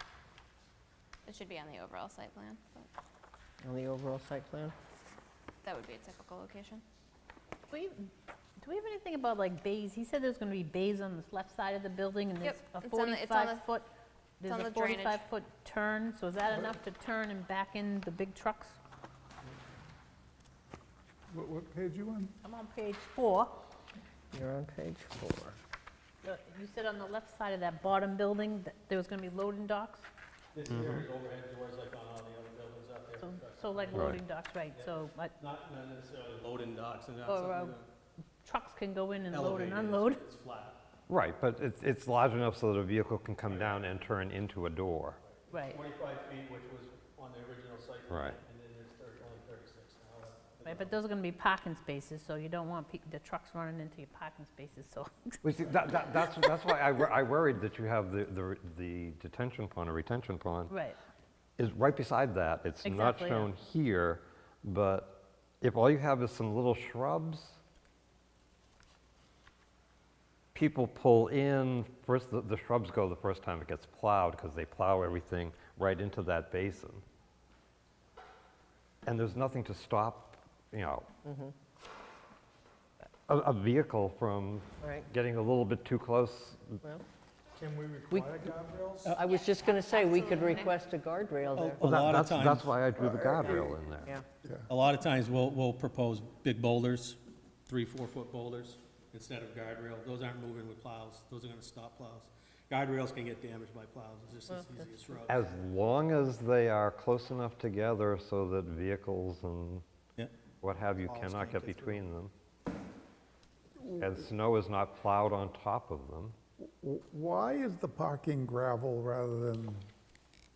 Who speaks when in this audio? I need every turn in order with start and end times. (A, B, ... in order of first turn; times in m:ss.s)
0:01.3-0:02.9 A
0:03.6-0:04.8 B
0:05.6-0:06.8 A
0:07.7-0:08.1 C
0:08.6-0:18.8 C
0:12.4-0:13.7 A
0:14.5-0:15.2 A
0:21.3-0:22.3 D
0:22.4-0:23.5 C
0:24.3-0:25.6 B
0:26.2-0:30.1 C
0:30.5-0:34.1 E
0:33.2-0:35.3 C
0:33.9-0:34.2 F
0:34.7-0:37.9 E
0:37.2-0:37.8 C
0:38.4-0:40.2 C
0:39.3-0:40.8 E
0:41.1-0:45.2 F
0:43.4-0:43.9 E
0:45.2-0:51.0 E
0:45.5-0:45.8 C
0:48.1-0:48.4 F
0:50.6-0:55.4 C
0:55.4-1:00.7 F
1:00.7-1:01.0 C
1:01.6-1:07.6 F
1:02.8-1:03.5 C
1:10.5-1:17.0 F
1:19.1-1:21.1 F
1:21.2-1:21.5 B
1:23.3-1:26.8 F
1:24.8-1:25.1 B
1:27.6-1:29.1 D
1:28.1-1:28.5 B
1:29.1-1:31.8 B
1:29.2-1:30.8 A
1:31.6-1:32.9 E
1:31.8-1:34.1 F
1:33.0-1:33.6 D
1:34.7-1:45.5 E
1:45.3-1:49.8 F
1:50.6-1:52.3 F
1:51.0-1:52.0 E
1:54.0-1:56.4 F
1:56.6-1:59.9 D